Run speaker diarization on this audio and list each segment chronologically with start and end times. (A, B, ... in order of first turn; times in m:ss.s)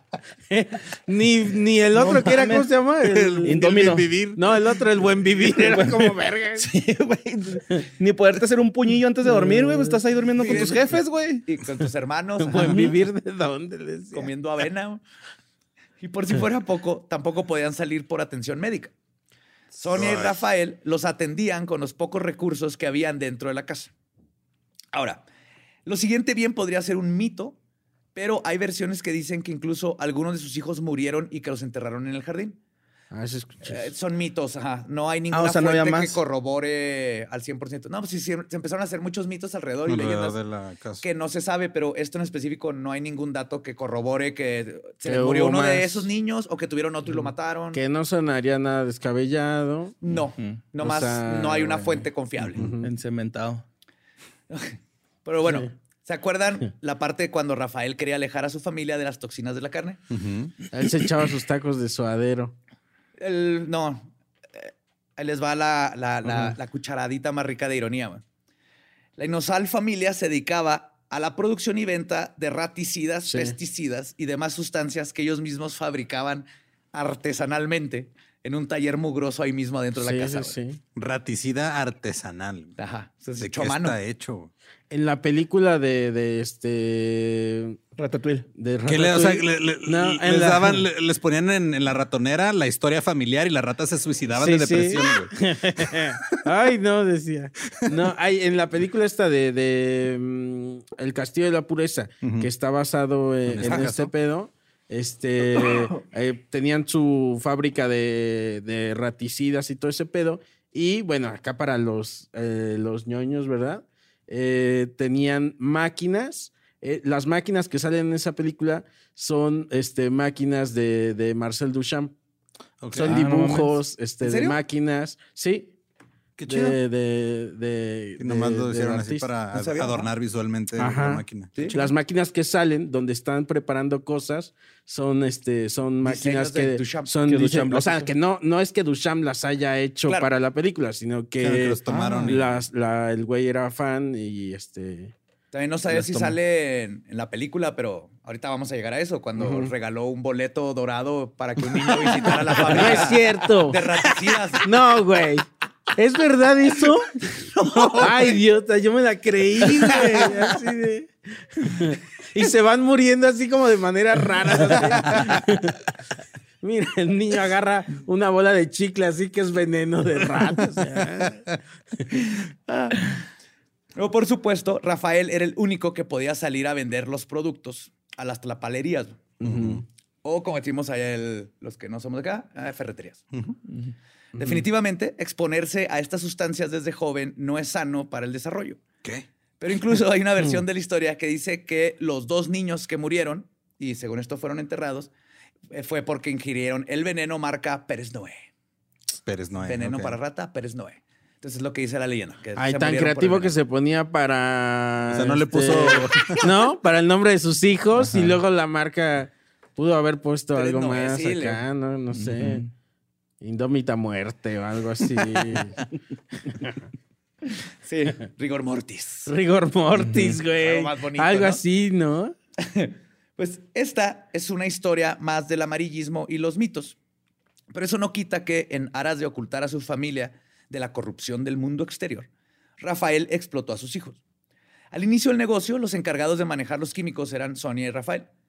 0:00.5-0:03.6 A
0:01.9-0:02.7 B
0:03.1-0:04.4 C
0:03.4-0:04.1 B
0:04.3-0:06.7 A
0:05.4-0:11.4 B
0:09.2-0:10.6 A
0:10.4-0:10.9 D
0:11.4-0:12.8 D
0:12.4-0:14.3 A
0:12.5-0:12.9 B
0:14.1-0:15.0 D
0:16.0-0:18.9 D
0:19.7-0:23.9 D
0:19.9-0:20.3 C
0:24.9-0:25.2 D
0:25.8-0:27.6 D
0:28.1-0:32.6 D
0:33.1-0:33.9 A
0:33.6-0:40.4 D
0:35.3-0:36.2 B
0:39.8-0:41.0 C
0:41.0-0:47.8 D
0:45.0-0:46.1 A
0:47.7-0:50.0 A
0:50.0-0:52.7 D
0:50.8-0:52.9 A
0:52.8-0:53.6 B
0:54.5-1:00.0 D
0:55.4-0:55.7 A
1:00.1-1:00.5 C
1:00.7-1:02.5 A
1:03.2-1:08.2 D
1:09.2-1:20.6 D
1:13.2-1:13.6 A
1:20.0-1:20.8 A
1:20.9-1:22.7 C
1:22.8-1:24.0 D
1:23.4-1:24.5 C
1:24.9-1:27.8 A
1:28.0-1:28.5 B
1:28.5-1:30.8 A
1:28.8-1:36.0 C
1:34.3-2:02.1 A
1:42.2-1:42.5 C
1:43.5-1:44.1 C
2:02.8-2:03.2 C
2:02.9-2:05.8 A
2:03.0-2:03.7 B
2:04.2-2:04.6 D
2:06.4-2:06.8 C
2:06.5-2:09.3 A
2:08.2-2:11.8 C
2:09.5-2:10.1 D
2:10.8-2:25.1 A
2:11.6-2:11.9 D
2:16.0-2:17.1 D
2:17.3-2:18.1 B
2:20.0-2:20.3 D
2:21.4-2:22.6 C
2:21.9-2:22.3 B
2:25.5-2:34.7 D
2:29.4-2:29.7 A
2:32.4-2:33.8 A
2:34.6-2:37.3 A
2:37.6-2:38.1 C
2:37.9-2:45.8 A
2:46.6-2:52.2 A
2:52.7-2:53.1 D
2:54.0-2:59.2 D
2:59.4-2:59.8 A
2:59.4-2:59.8 C
3:00.2-3:03.2 D
3:04.4-3:04.6 A
3:04.4-3:08.8 D
3:09.6-3:15.1 D
3:15.7-3:18.4 D
3:19.2-3:20.2 C
3:19.6-3:23.5 D
3:22.6-3:32.6 A
3:25.1-3:26.5 C
3:30.5-3:31.6 D
3:32.1-3:32.7 B
3:33.4-3:35.8 A
3:36.4-3:36.8 A
3:37.8-3:39.3 D
3:39.2-3:42.3 A
3:40.0-3:40.4 B
3:40.5-3:41.6 D
3:42.6-3:47.0 D
3:47.7-3:52.3 D
3:52.8-3:54.2 D
3:54.9-3:58.3 D